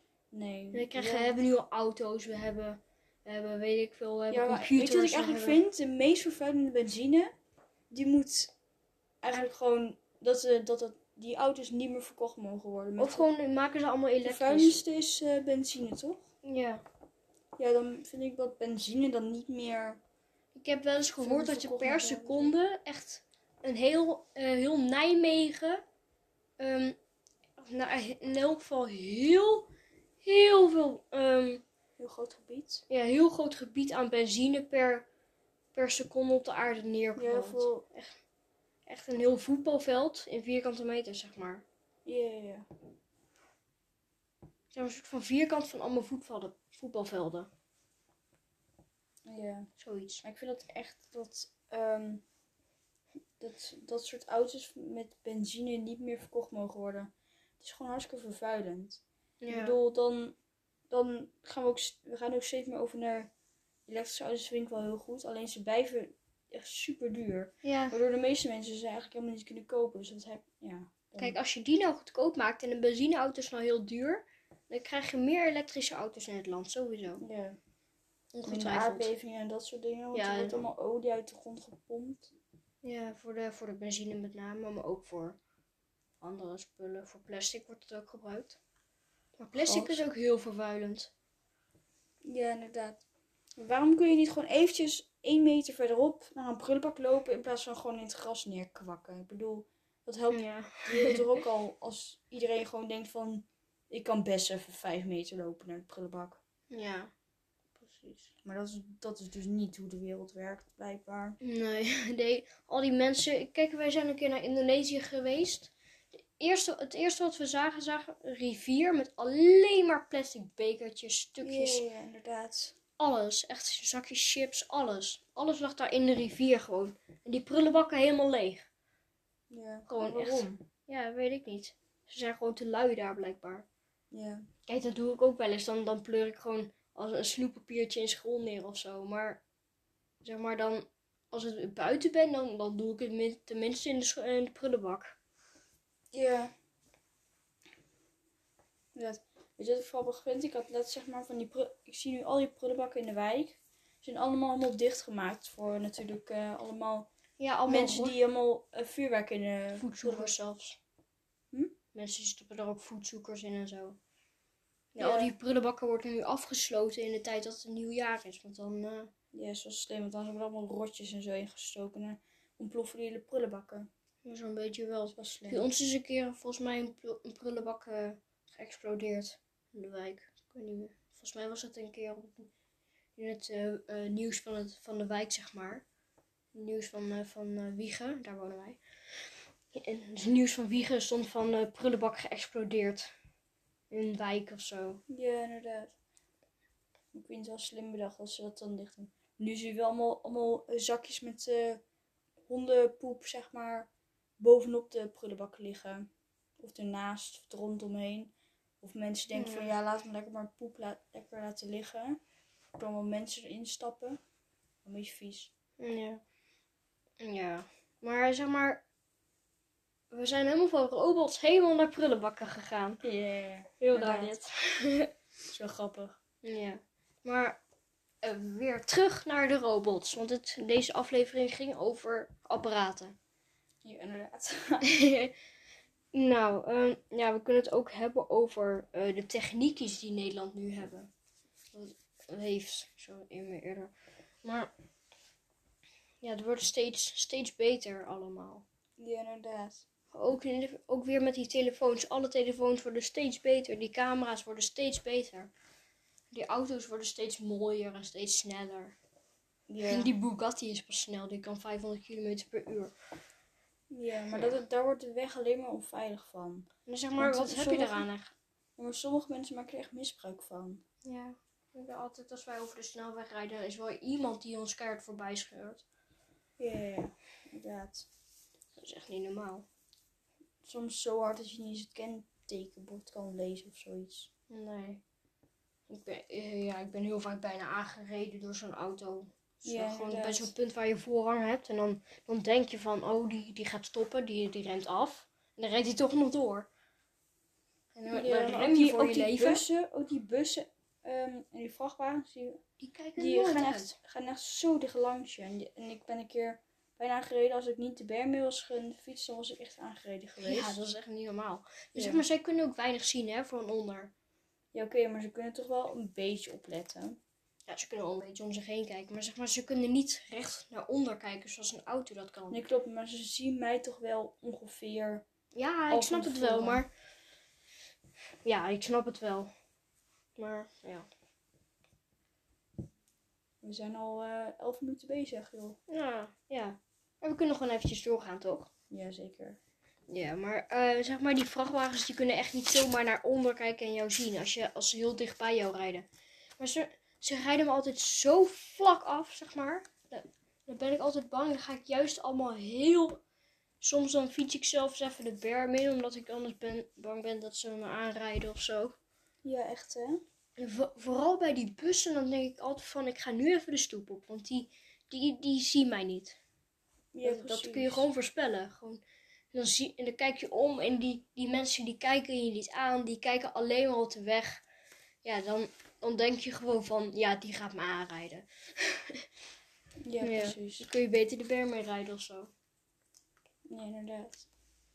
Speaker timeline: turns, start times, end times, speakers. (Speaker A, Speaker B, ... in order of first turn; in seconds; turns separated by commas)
Speaker A: 0.3-1.3, Speaker B: 0.7-5.6, Speaker A: 4.3-7.3, Speaker A: 7.9-8.5, Speaker A: 9.2-13.3, Speaker B: 13.0-14.8, Speaker A: 14.2-16.2, Speaker B: 16.4-16.8, Speaker A: 17.6-20.0, Speaker B: 20.6-25.8, Speaker A: 21.2-22.6, Speaker B: 26.6-26.9, Speaker B: 27.6-29.7, Speaker B: 30.2-31.6, Speaker A: 32.0-32.8, Speaker B: 32.9-35.1, Speaker B: 35.7-38.2, Speaker A: 37.1-37.8, Speaker B: 38.9-41.6, Speaker A: 42.1-42.7, Speaker B: 44.7-47.5, Speaker A: 49.2-49.7, Speaker B: 49.8-50.2, Speaker A: 50.2-52.2, Speaker A: 53.4-60.4, Speaker B: 59.4-59.8, Speaker A: 60.9-63.3, Speaker A: 63.9-71.4, Speaker B: 67.6-68.0, Speaker B: 71.2-77.2, Speaker A: 77.2-77.6, Speaker B: 78.3-79.1, Speaker A: 78.4-82.3, Speaker B: 80.1-80.6, Speaker B: 82.8-85.4, Speaker B: 86.2-88.6, Speaker B: 89.4-91.1, Speaker A: 89.5-90.0, Speaker A: 92.2-93.0, Speaker A: 93.6-106.4, Speaker B: 100.3-101.3, Speaker B: 106.7-107.1, Speaker B: 107.8-108.3, Speaker A: 108.3-111.4, Speaker B: 111.4-115.7, Speaker B: 116.4-121.8, Speaker A: 121.4-122.8, Speaker B: 123.0-128.7, Speaker A: 129.5-130.6, Speaker B: 129.9-133.7, Speaker A: 134.1-134.4, Speaker B: 134.7-139.4, Speaker B: 140.2-145.2, Speaker A: 146.1-146.5, Speaker A: 148.9-157.1, Speaker B: 157.4-158.2, Speaker A: 157.7-160.3, Speaker B: 159.8-160.8, Speaker B: 161.9-164.0, Speaker B: 164.9-169.1, Speaker A: 165.0-165.3, Speaker A: 169.3-173.9, Speaker B: 174.2-182.5, Speaker A: 175.1-175.7, Speaker B: 183.2-185.8, Speaker B: 186.5-188.8, Speaker B: 189.7-193.1, Speaker B: 193.9-195.0, Speaker A: 195.1-195.9, Speaker A: 197.1-201.8, Speaker A: 202.5-206.1, Speaker A: 206.6-212.2, Speaker B: 209.3-209.7, Speaker A: 212.8-214.2, Speaker A: 214.8-215.5, Speaker B: 215.8-216.2, Speaker B: 217.2-218.8, Speaker B: 220.1-223.0, Speaker A: 223.0-224.3, Speaker B: 223.8-225.1, Speaker A: 225.5-226.2, Speaker B: 226.4-227.6, Speaker B: 228.2-233.1, Speaker A: 233.8-234.9, Speaker B: 234.8-235.3, Speaker B: 236.1-241.1, Speaker B: 241.7-243.9, Speaker B: 244.4-244.7, Speaker B: 246.2-248.6, Speaker A: 249.0-249.8, Speaker B: 250.1-255.5, Speaker B: 256.3-259.0, Speaker A: 259.7-260.1, Speaker B: 259.9-262.9, Speaker A: 263.9-268.1, Speaker B: 266.9-268.3, Speaker A: 268.8-270.8, Speaker B: 271.0-275.8, Speaker A: 276.6-278.1, Speaker B: 278.8-279.6, Speaker A: 280.6-284.3, Speaker B: 284.5-285.0, Speaker B: 285.9-296.7, Speaker A: 289.6-290.5, Speaker B: 297.9-299.6, Speaker A: 298.1-302.6, Speaker B: 302.8-303.9, Speaker A: 303.2-310.8, Speaker B: 310.4-314.1, Speaker A: 311.9-312.2, Speaker A: 314.7-317.2, Speaker B: 317.7-322.6, Speaker A: 322.5-325.2, Speaker B: 325.5-326.9, Speaker A: 325.9-326.8, Speaker B: 328.4-329.5, Speaker B: 330.4-331.1, Speaker A: 333.6-335.8, Speaker B: 335.9-338.7, Speaker A: 338.9-339.6, Speaker B: 340.1-346.1, Speaker B: 346.6-353.2, Speaker B: 353.8-358.9, Speaker A: 359.4-360.2, Speaker B: 360.6-366.4, Speaker A: 367.1-368.1, Speaker B: 367.2-369.0, Speaker B: 369.5-374.6, Speaker B: 375.2-379.2, Speaker A: 380.0-380.9, Speaker B: 380.2-382.5, Speaker A: 383.7-384.5